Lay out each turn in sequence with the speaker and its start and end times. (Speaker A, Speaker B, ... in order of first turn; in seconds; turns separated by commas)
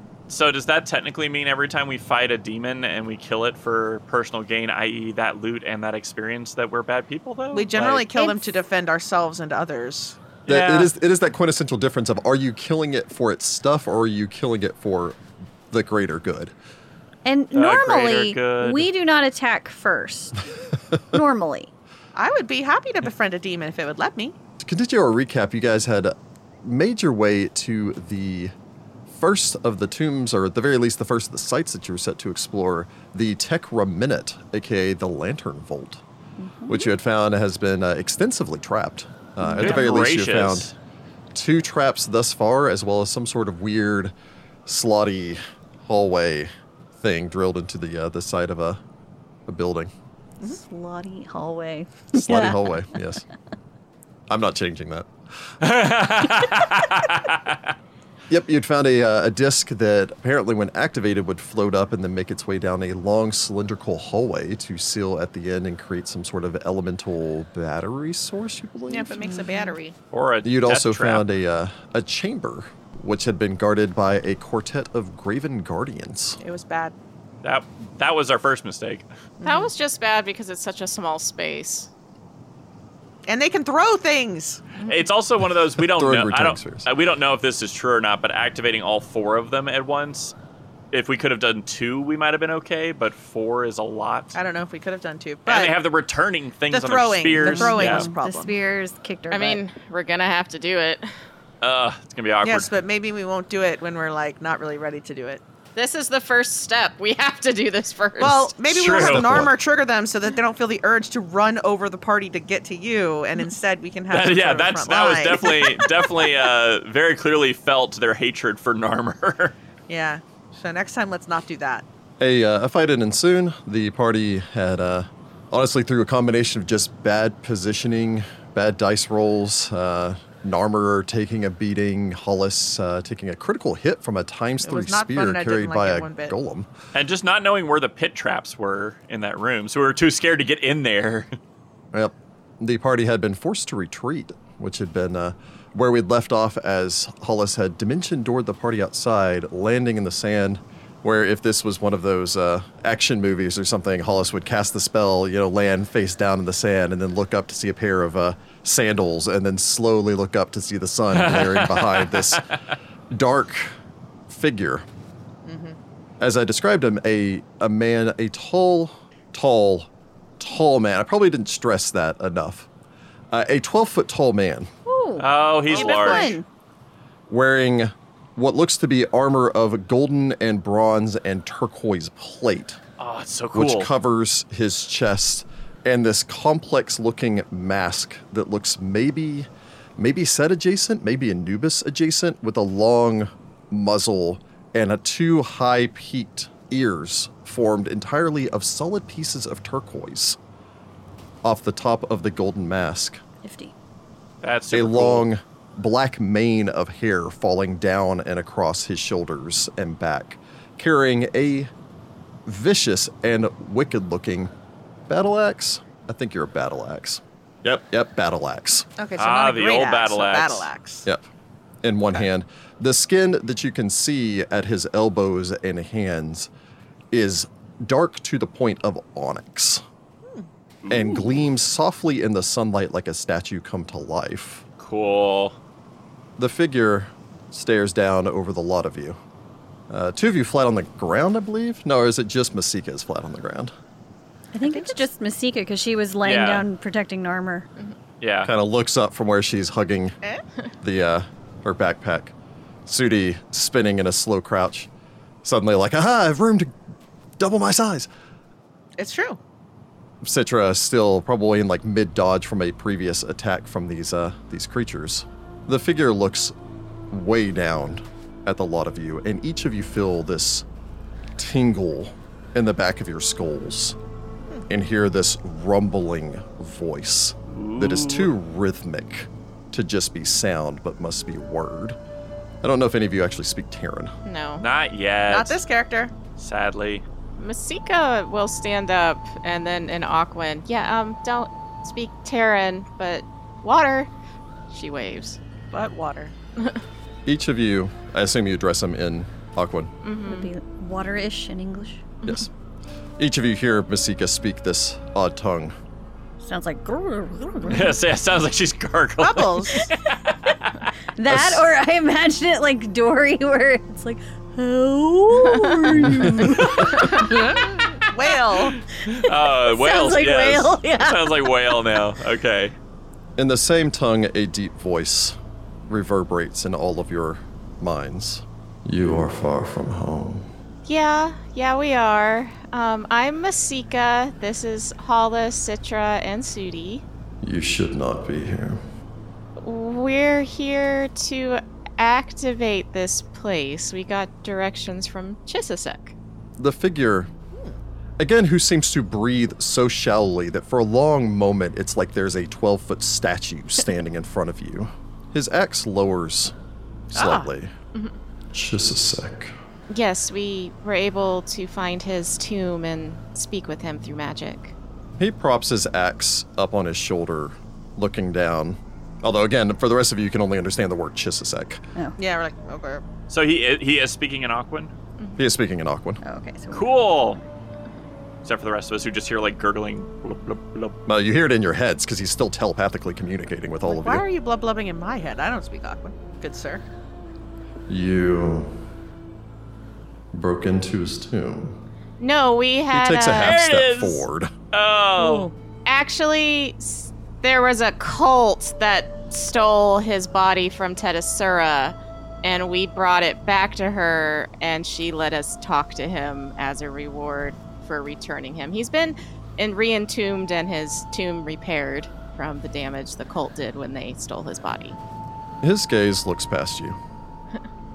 Speaker A: 0.3-8.1, Speaker B: 7.5-10.2, Speaker C: 8.1-8.6, Speaker A: 10.5-10.9, Speaker D: 10.5-15.2, Speaker D: 15.7-16.5, Speaker C: 17.2-21.7, Speaker A: 17.5-18.9, Speaker B: 22.1-24.4, Speaker D: 24.6-28.5, Speaker D: 29.1-36.0, Speaker C: 36.4-36.9, Speaker D: 36.7-40.7, Speaker C: 39.4-39.9, Speaker A: 39.6-40.7, Speaker D: 41.3-44.1, Speaker D: 44.7-48.8, Speaker D: 49.5-49.9, Speaker C: 50.4-52.8, Speaker D: 52.1-53.2, Speaker D: 54.3-55.1, Speaker A: 55.6-57.6, Speaker D: 58.3-69.2, Speaker B: 68.9-70.0, Speaker C: 69.2-69.8, Speaker A: 70.1-71.3, Speaker D: 70.4-76.4, Speaker B: 76.4-76.9, Speaker A: 77.4-79.1, Speaker B: 79.4-79.7, Speaker E: 79.4-81.9, Speaker B: 83.3-84.8, Speaker A: 84.8-90.3, Speaker D: 85.8-86.9, Speaker A: 90.9-94.4, Speaker B: 94.3-95.8, Speaker A: 95.5-98.1, Speaker B: 96.7-98.6, Speaker C: 97.4-99.6, Speaker E: 99.3-101.1, Speaker A: 101.6-102.7, Speaker B: 102.4-105.4, Speaker E: 105.8-108.5, Speaker B: 108.2-116.4, Speaker A: 108.7-109.5, Speaker D: 108.9-109.5, Speaker A: 114.1-119.5, Speaker B: 119.9-121.8, Speaker D: 122.2-136.7, Speaker B: 134.6-136.3, Speaker A: 136.9-141.4, Speaker D: 141.9-162.4, Speaker A: 161.1-162.6, Speaker D: 163.1-163.8, Speaker D: 164.3-164.8, Speaker B: 165.4-165.8, Speaker D: 166.2-169.9, Speaker D: 170.4-172.7, Speaker D: 173.3-174.7, Speaker C: 174.9-176.4, Speaker A: 175.2-176.4, Speaker D: 177.3-182.8, Speaker A: 183.0-183.9, Speaker D: 183.5-200.4, Speaker D: 201.4-203.2, Speaker C: 203.4-203.7, Speaker A: 204.4-205.3, Speaker D: 204.7-211.7, Speaker D: 212.5-214.5, Speaker D: 215.1-218.9, Speaker B: 219.0-221.1, Speaker A: 219.2-220.7, Speaker D: 221.8-226.5, Speaker D: 227.1-229.8, Speaker A: 230.8-231.3, Speaker D: 230.9-234.6, Speaker A: 234.8-235.6, Speaker D: 236.4-239.2, Speaker D: 239.9-243.7, Speaker C: 244.5-247.7, Speaker B: 244.7-245.0, Speaker A: 246.2-246.7, Speaker A: 248.2-248.5, Speaker D: 248.4-250.2, Speaker D: 250.8-252.3, Speaker D: 252.9-254.9, Speaker D: 255.4-256.8, Speaker D: 257.4-258.1, Speaker B: 259.0-259.4, Speaker D: 260.2-266.5, Speaker D: 267.1-270.6, Speaker D: 271.4-274.0, Speaker D: 274.7-282.0, Speaker A: 277.5-278.3, Speaker D: 282.6-284.1, Speaker E: 284.2-284.6, Speaker A: 284.6-285.6, Speaker B: 285.3-286.1, Speaker A: 286.4-287.1, Speaker E: 287.4-294.1, Speaker E: 294.7-295.4, Speaker B: 295.7-296.3, Speaker D: 297.2-299.9, Speaker E: 300.0-300.5, Speaker C: 300.2-302.2, Speaker D: 303.2-305.8, Speaker C: 306.4-308.0, Speaker A: 307.7-310.9, Speaker B: 309.2-309.9, Speaker C: 311.2-318.1, Speaker D: 311.3-311.7, Speaker D: 316.0-316.5, Speaker B: 318.1-318.8, Speaker A: 319.0-322.8, Speaker C: 319.1-321.8, Speaker D: 323.4-330.5, Speaker E: 330.9-337.1, Speaker D: 337.4-338.8, Speaker E: 339.6-346.1, Speaker D: 346.6-347.3, Speaker D: 348.2-356.5, Speaker D: 357.1-357.7, Speaker B: 357.1-357.5, Speaker D: 358.5-359.5, Speaker E: 359.9-364.8, Speaker D: 365.2-371.8, Speaker B: 372.2-373.0, Speaker A: 373.3-374.9, Speaker D: 375.4-376.2, Speaker C: 376.2-377.4, Speaker A: 376.7-377.4, Speaker A: 378.4-381.0, Speaker D: 381.1-384.3, Speaker B: 383.9-386.8, Speaker D: 387.9-388.8, Speaker D: 390.3-391.8, Speaker E: 392.2-393.6, Speaker D: 392.9-394.5, Speaker A: 393.4-395.5, Speaker C: 395.2-395.5, Speaker E: 395.9-415.0, Speaker D: 415.6-417.0